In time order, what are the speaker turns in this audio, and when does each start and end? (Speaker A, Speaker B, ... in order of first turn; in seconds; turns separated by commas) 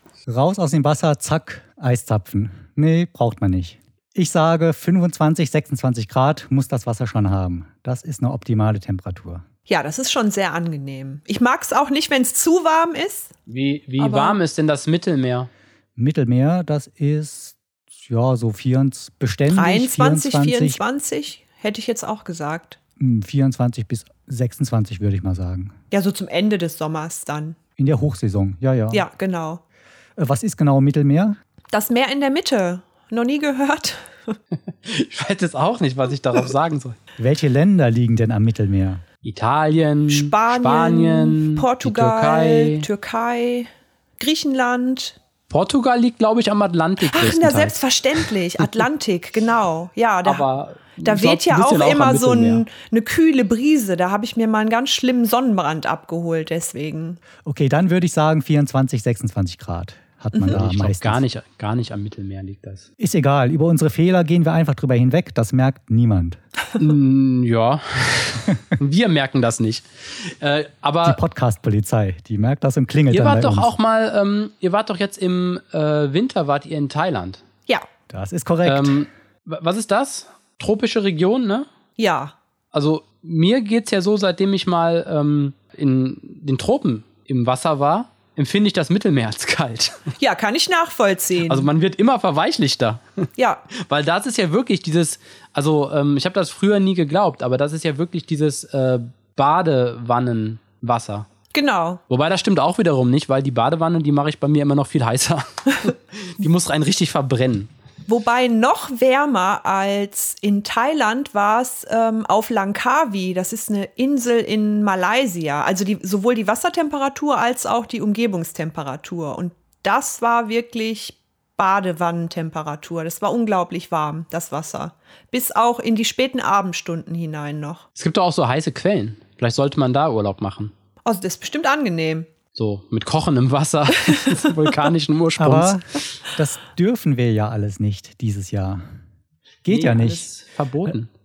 Speaker A: 0.3-9.4, Speaker B: 9.7-13.3, Speaker C: 13.5-15.5, Speaker B: 14.0-14.4, Speaker A: 16.0-20.8, Speaker B: 19.5-22.8, Speaker A: 23.0-25.7, Speaker B: 25.9-27.6, Speaker A: 27.8-29.1, Speaker B: 28.9-29.6, Speaker A: 30.2-31.4, Speaker B: 31.7-34.4, Speaker C: 34.8-37.0, Speaker A: 37.2-39.0, Speaker C: 39.2-42.9, Speaker B: 40.1-45.2, Speaker C: 45.5-47.8, Speaker B: 47.1-50.5, Speaker C: 50.2-52.6, Speaker B: 51.0-57.2, Speaker A: 57.4-61.2, Speaker C: 60.5-62.9, Speaker A: 63.0-66.4, Speaker C: 66.8-71.2, Speaker A: 71.0-73.7, Speaker C: 73.1-77.4, Speaker A: 78.1-79.0, Speaker C: 78.7-81.7, Speaker B: 82.0-82.3, Speaker C: 82.7-90.0, Speaker B: 90.2-91.7, Speaker C: 91.5-101.3, Speaker B: 93.4-93.7, Speaker B: 101.5-102.0, Speaker C: 102.1-107.7, Speaker B: 108.1-127.8, Speaker C: 128.0-130.7, Speaker B: 131.1-132.3, Speaker C: 132.5-135.8, Speaker A: 135.4-138.8, Speaker A: 139.7-140.3, Speaker C: 139.7-141.1